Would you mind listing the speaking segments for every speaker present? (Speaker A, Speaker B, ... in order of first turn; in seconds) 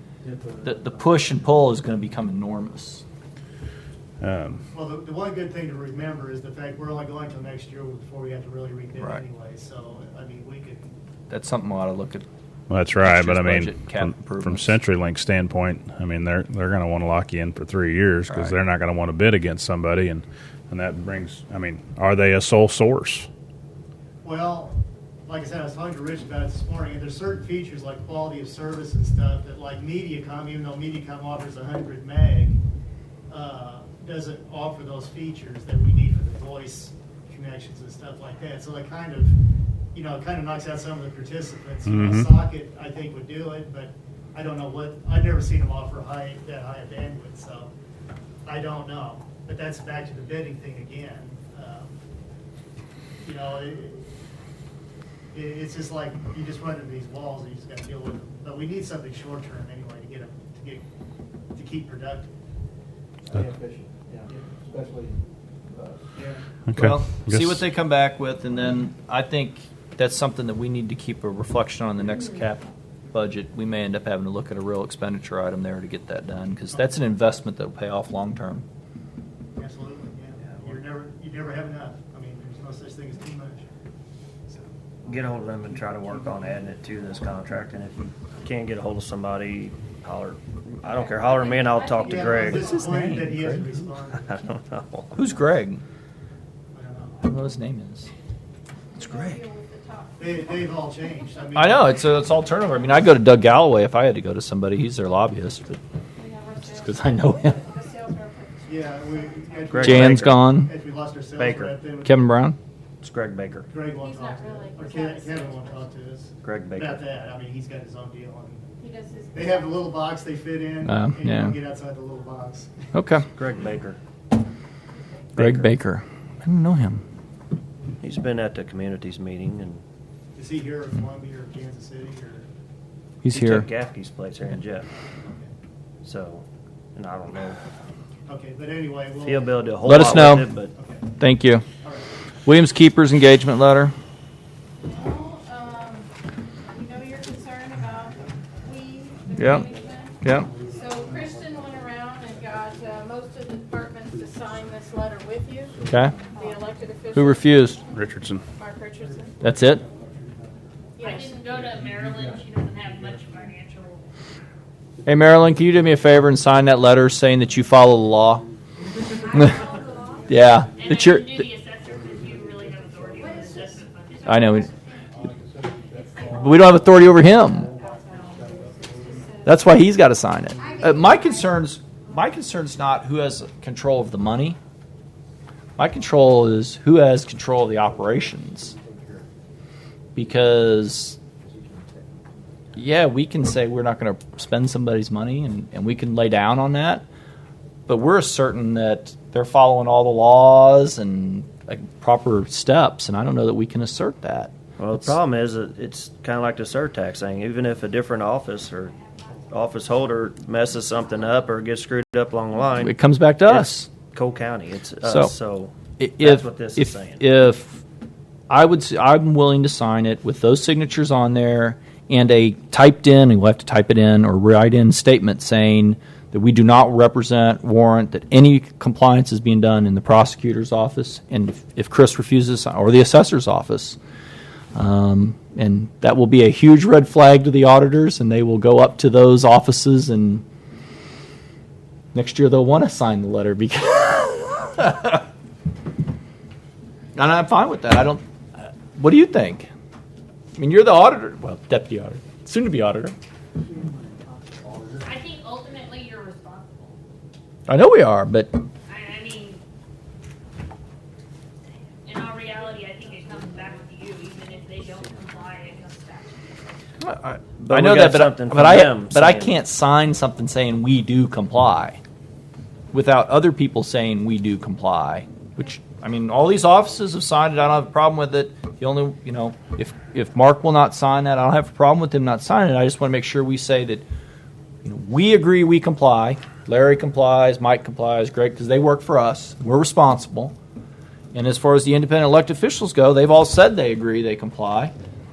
Speaker A: 0.2-0.7, 63.3-65.2, 65.7-66.0, 150.4-151.3, 155.9-156.4, 159.9-160.1, 171.9-173.3, 175.1-179.3, 187.9-189.2, 191.4-192.6, 254.0-255.0
Speaker B: 0.6-3.0, 11.3-12.2, 13.0-14.8, 18.3-18.5, 66.7-78.6, 92.5-93.9, 95.1-95.8, 97.2-98.1, 99.0-99.4, 101.5-105.8, 106.6-107.6, 109.8-110.7, 112.0-112.5, 120.8-121.6, 122.9-123.3, 125.3-127.0, 133.2-133.7, 139.8-140.5, 141.2-141.6, 142.4-143.9, 149.3-149.7, 150.2-150.5, 155.9-156.1, 157.1-157.8, 159.4-159.8, 165.0-168.4, 169.3-169.6, 170.3-171.4, 174.2-174.7, 176.2-177.7, 179.4-184.6, 185.8-188.7, 190.2-191.2, 192.7-197.0, 197.9-205.1, 212.8-213.9, 215.0-215.3, 216.0-217.8, 218.5-234.0, 234.7-240.4, 242.1-245.2, 247.2-249.7, 250.5-253.1, 257.7-258.6, 267.0-272.0, 272.9-284.0, 284.8-290.5, 291.3-294.9
Speaker C: 4.2-4.6, 12.7-23.3, 41.8-42.3, 66.7-67.6, 157.9-158.4
Speaker D: 4.7-10.9, 24.2-32.6, 33.3-39.4, 39.9-47.7, 48.4-51.9, 53.2-54.1, 55.3-60.8, 61.5-62.3, 66.2-66.4, 79.5-83.7, 92.0-94.4, 96.7-97.2, 100.2-102.0, 108.7-112.3, 113.7-118.7, 119.3-122.8, 130.3-132.5, 135.2-135.5, 138.3-141.1, 141.8-142.1
Speaker E: 85.0-92.8, 94.2-95.1, 109.7-110.3, 111.4-111.7, 113.0-113.7, 116.4-117.0, 123.3-124.0, 125.3-125.7, 128.0-129.8, 133.3-134.9, 136.0-136.4, 136.9-137.6, 139.2-140.7, 204.8-208.9, 209.5-217.2, 267.6-269.6
Speaker F: 90.9-93.0, 98.9-100.6, 106.2-110.0, 114.0-115.9, 118.8-119.8, 144.8-146.1, 146.7-157.9, 158.5-159.4, 160.9-161.4, 169.1-170.6, 173.2-176.9, 177.6-179.8, 180.6-181.7
Speaker G: 161.0-164.1, 170.7-174.7, 208.8-209.5, 255.0-257.0, 258.9-259.6, 262.0-266.8